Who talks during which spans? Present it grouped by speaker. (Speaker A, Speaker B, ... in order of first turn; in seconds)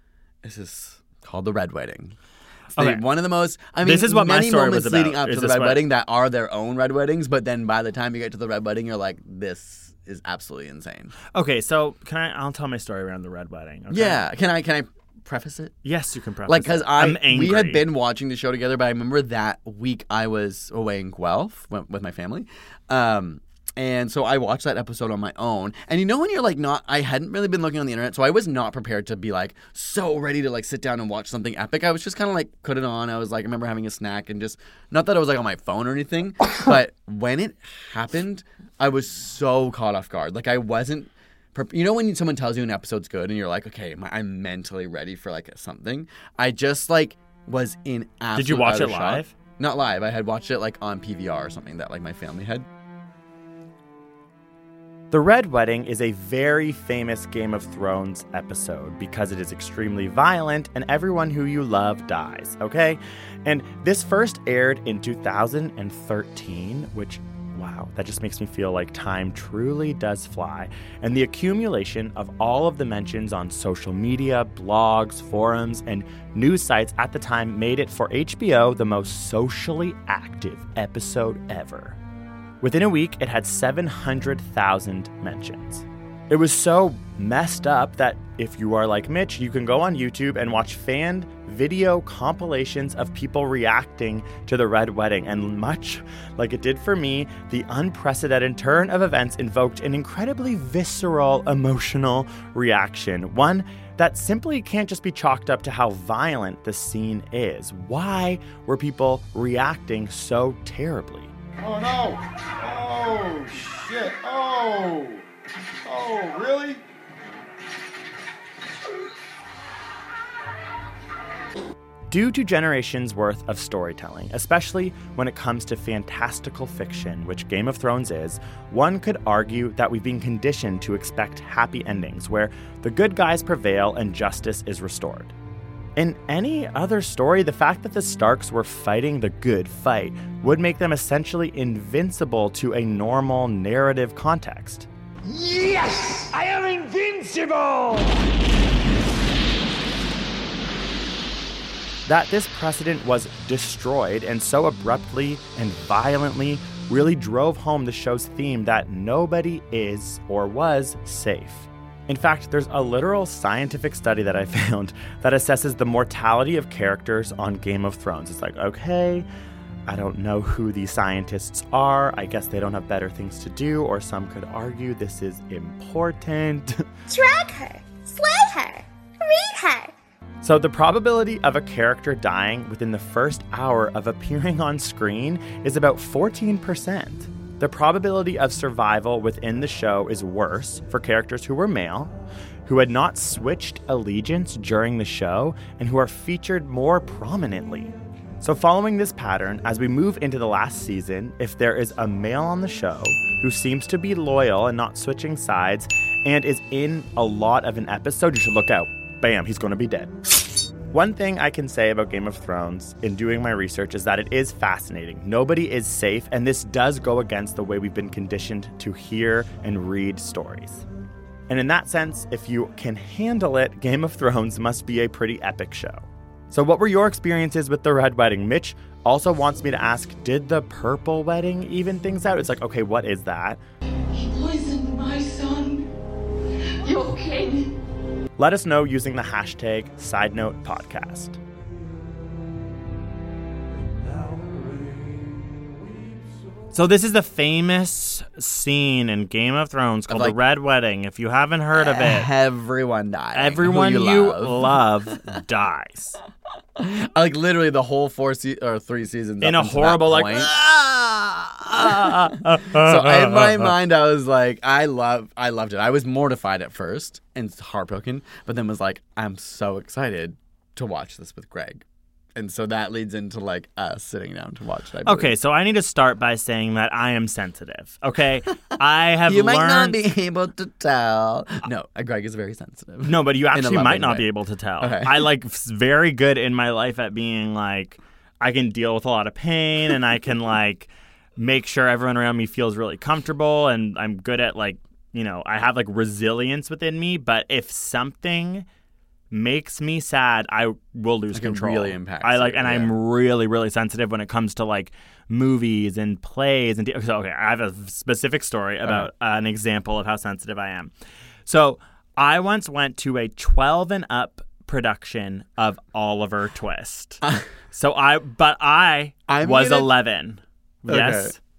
Speaker A: 0.4-2.2, 2.7-11.1, 13.9-15.8, 16.5-52.7, 250.1-250.4, 251.7-254.8, 256.8-260.6, 261.8-271.8, 272.4-275.4, 279.2-284.3, 284.8-285.3, 301.3-302.9, 308.8-309.1, 319.3-319.9, 320.9-321.4
Speaker B: 2.8-3.0, 3.8-5.8, 11.3-14.2, 15.8-17.8, 48.3-49.3, 55.1-82.0, 82.6-111.3, 122.1-135.3, 136.0-144.9, 152.1-169.3, 169.9-176.8, 180.4-192.1, 192.7-210.1, 210.9-220.8, 221.5-233.6, 238.4-241.4, 246.7-252.3, 253.3-256.2, 259.4-263.8, 275.1-280.0, 283.0-298.7, 299.3-310.9, 311.5-321.4
Speaker C: 111.6-115.2, 115.9-116.8
Speaker D: 145.3-148.3
Speaker E: 177.1-179.9
Speaker F: 234.1-235.8, 236.8-237.7